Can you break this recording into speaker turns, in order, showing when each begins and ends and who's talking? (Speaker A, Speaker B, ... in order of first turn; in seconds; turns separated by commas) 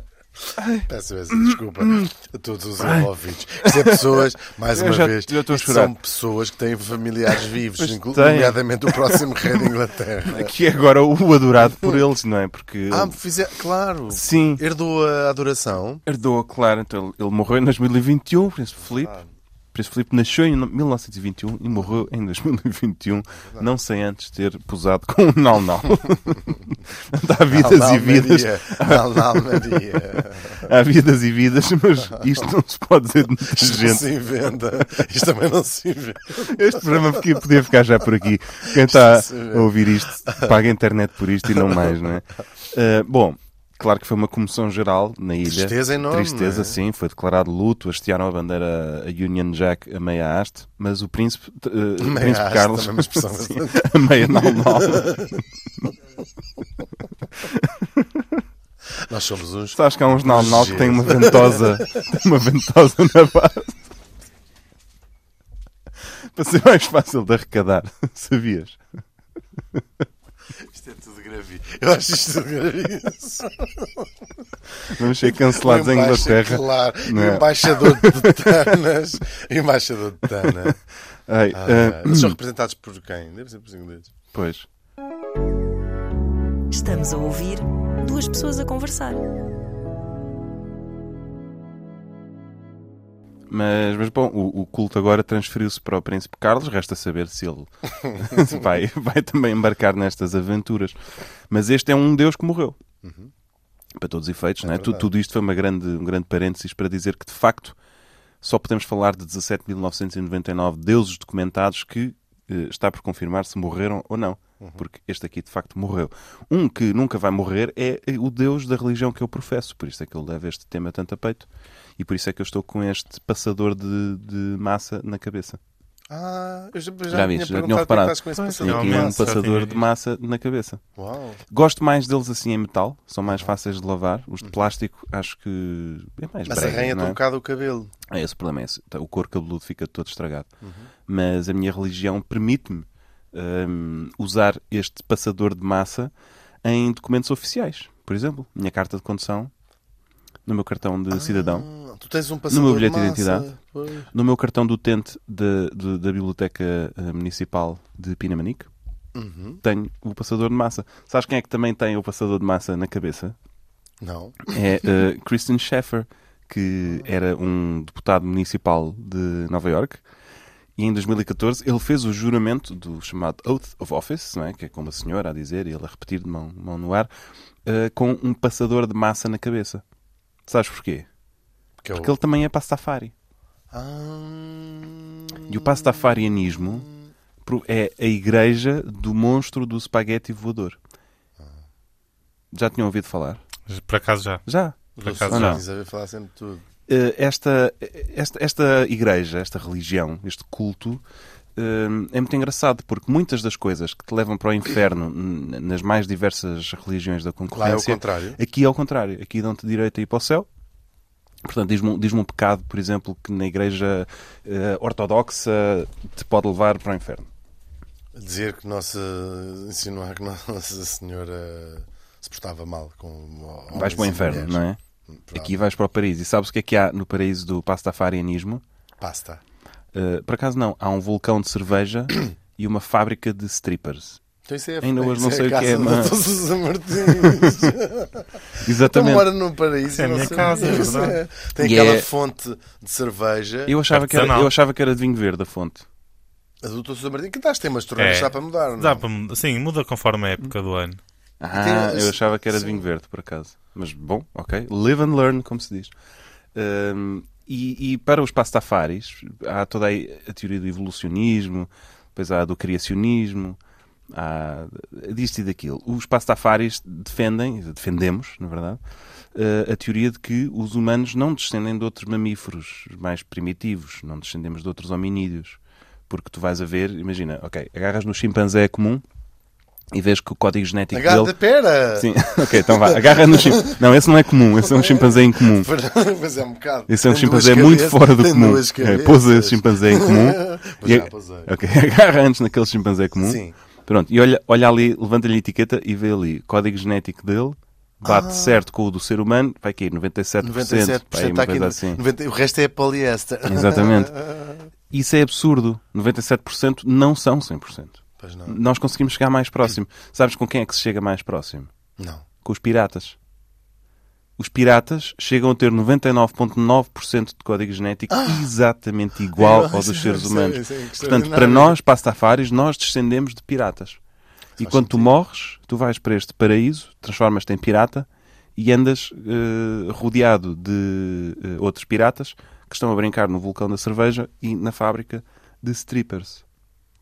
Speaker A: 0.6-2.1, Speaker B: 0.9-10.5, Speaker A: 2.8-3.1, Speaker A: 3.6-6.0, Speaker A: 7.8-9.7, Speaker A: 10.2-13.2, Speaker B: 12.9-16.0, Speaker A: 14.1-14.6, Speaker A: 16.1-19.1, Speaker B: 18.9-19.3, Speaker A: 19.7-34.1, Speaker B: 23.4-23.7, Speaker B: 27.5-30.7, Speaker B: 33.5-37.2, Speaker A: 36.4-55.3, Speaker B: 38.7-40.5, Speaker B: 45.5-46.8, Speaker B: 52.0-55.4, Speaker A: 57.4-58.4, Speaker B: 59.0-62.0, Speaker A: 59.8-63.8, Speaker A: 66.3-68.8, Speaker B: 70.6-74.1, Speaker A: 74.9-78.7, Speaker B: 75.2-80.8, Speaker A: 80.4-80.7, Speaker A: 81.3-82.4, Speaker B: 81.5-84.2, Speaker A: 84.3-84.7, Speaker C: 86.7-89.2, Speaker A: 93.5-101.0, Speaker A: 101.5-102.8, Speaker B: 103.0-103.3, Speaker A: 104.0-107.8, Speaker B: 104.6-105.1, Speaker A: 108.4-125.6, Speaker B: 126.1-129.4, Speaker A: 127.1-130.8, Speaker D: 128.4-129.9, Speaker B: 131.0-131.4, Speaker A: 131.5-137.2, Speaker B: 136.5-137.9, Speaker A: 138.1-140.5, Speaker B: 140.6-140.9, Speaker A: 141.1-146.1, Speaker A: 146.6-149.5, Speaker A: 150.5-151.7, Speaker B: 151.1-154.1, Speaker A: 152.5-153.5, Speaker A: 154.1-158.7, Speaker B: 159.2-159.6, Speaker A: 159.6-163.4, Speaker B: 164.0-164.6, Speaker A: 164.5-170.0, Speaker A: 170.8-177.1, Speaker A: 177.7-179.8, Speaker A: 180.5-181.1, Speaker B: 181.8-182.1, Speaker A: 182.0-183.1, Speaker B: 183.7-187.1, Speaker A: 185.5-186.9, Speaker A: 187.4-190.8, Speaker A: 192.5-193.4, Speaker D: 193.7-194.4, Speaker A: 194.5-195.6, Speaker B: 195.0-196.7, Speaker D: 195.0-195.6, Speaker A: 196.9-201.0, Speaker A: 201.6-210.5, Speaker B: 207.5-208.4, Speaker A: 211.4-217.3, Speaker B: 218.2-225.6, Speaker A: 223.7-224.8, Speaker A: 225.3-228.6, Speaker B: 229.0-229.4, Speaker A: 229.9-234.2, Speaker B: 234.5-243.8, Speaker A: 234.8-236.2, Speaker A: 237.0-237.7, Speaker A: 238.6-239.3, Speaker D: 240.0-241.2, Speaker A: 241.6-242.1, Speaker A: 243.7-245.8, Speaker D: 243.9-244.5, Speaker B: 246.6-249.0, Speaker D: 248.0-251.0, Speaker A: 251.4-255.9, Speaker B: 251.5-252.8, Speaker A: 256.6-263.6, Speaker A: 264.1-268.8, Speaker A: 269.3-279.0, Speaker A: 279.9-281.4, Speaker B: 280.9-283.8, Speaker A: 281.9-285.7, Speaker B: 284.6-291.5, Speaker A: 286.9-302.0, Speaker B: 293.2-293.6, Speaker B: 298.0-298.6, Speaker B: 300.4-304.6, Speaker A: 303.5-304.2, Speaker A: 304.9-311.7, Speaker B: 308.2-308.6, Speaker B: 312.0-312.2, Speaker A: 312.4-313.2, Speaker A: 314.4-324.0, Speaker B: 318.1-318.5, Speaker B: 319.4-321.8, Speaker B: 324.6-325.1, Speaker A: 324.6-336.4